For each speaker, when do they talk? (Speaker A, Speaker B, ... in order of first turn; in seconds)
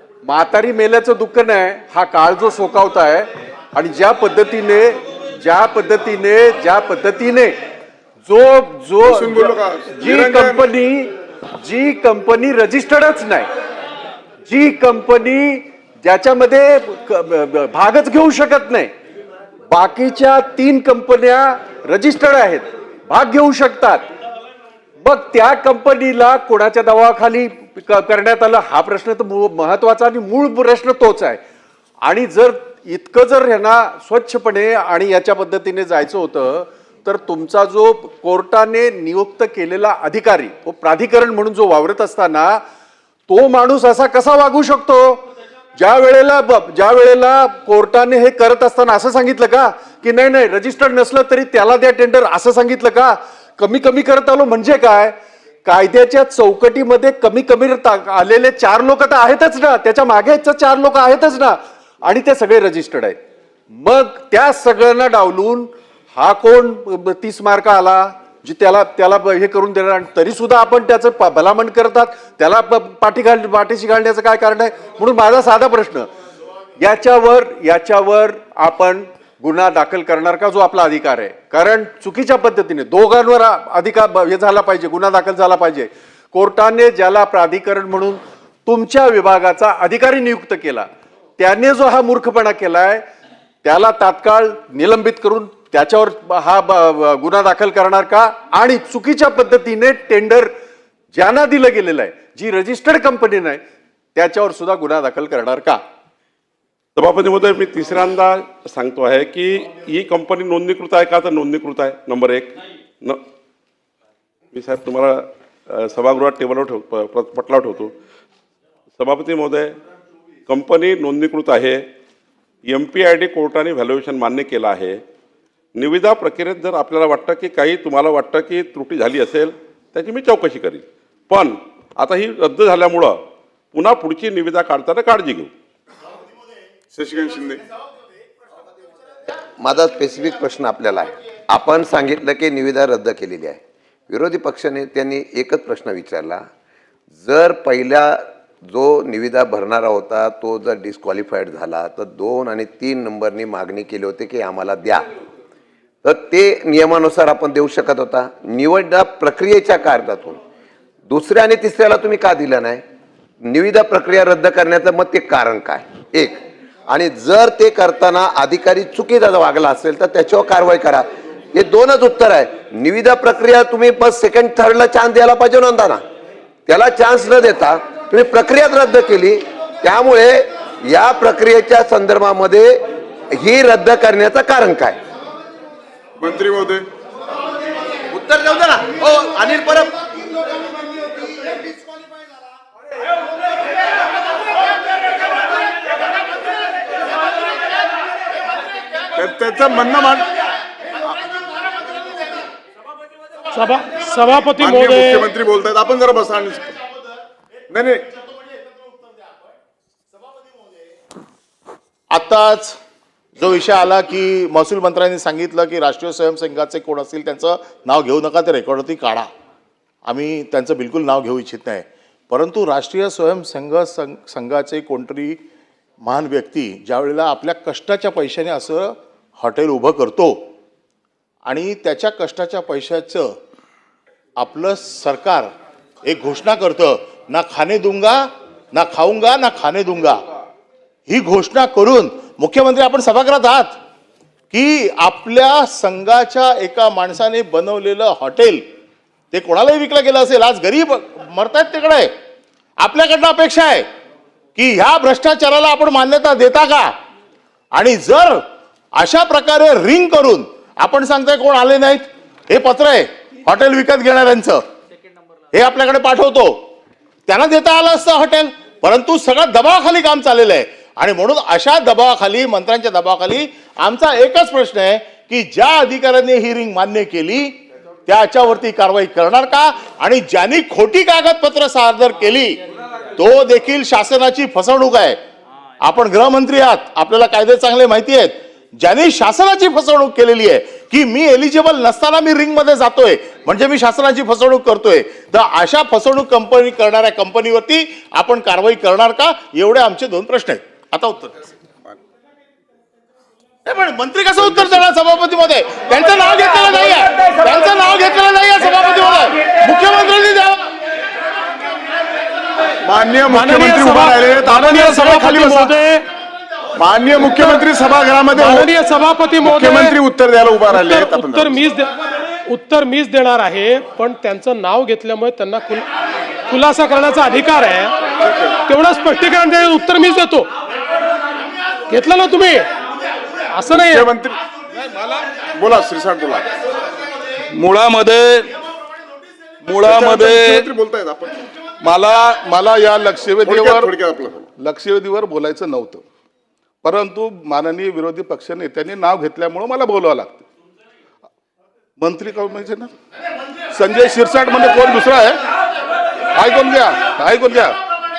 Speaker A: 0.3-7.6, 8.3-9.1, 10.4-13.5, 14.5-18.9, 19.7-24.1, 25.0-31.4, 32.0-42.6, 43.3-45.3, 45.8-63.2, 63.7-76.1, 76.8-93.0, 93.6-100.5, 101.1-103.6, 104.2-105.8
Speaker B: 9.0-10.7, 136.9-137.6, 186.2-186.8, 199.2-200.3, 204.6-206.8, 207.7-208.0, 304.4-304.8, 312.8-315.8, 316.8-318.7, 319.4-321.6, 328.2-328.6, 333.7-334.4, 335.6-336.4, 339.8-341.4, 343.5-344.5
Speaker C: 107.0-113.2, 114.5-117.9, 119.0-119.8, 120.5-121.8, 122.7-125.0, 125.8-133.2, 133.7-135.5
Speaker D: 139.3-146.5, 147.1-155.1, 156.0-160.4, 161.1-162.8, 163.4-176.0, 176.7-185.0, 188.1-190.0
Speaker E: 203.5-205.3, 313.3-316.0, 317.2-317.7, 318.3-320.0, 320.7-321.9, 322.5-325.9, 326.5-328.0, 328.6-330.5, 331.9-332.7, 333.5-334.1
Speaker F: 212.1-212.8, 213.4-219.3, 220.1-225.4, 226.0-230.4, 231.5-233.3, 234.4-235.5, 236.1-240.2, 241.1-243.8, 244.5-248.6, 249.3-252.1, 252.8-253.9, 254.6-256.9, 257.7-258.4, 259.0-264.6, 265.5-266.6, 267.3-277.6, 278.1-282.6, 283.2-285.2, 285.8-301.4, 303.7-310.7
Speaker G: 334.9-335.1, 337.5-338.5, 339.7-340.6, 341.8-343.9, 344.6-346.0, 346.8-350.4, 352.0-352.9, 353.7-355.4, 356.4-357.8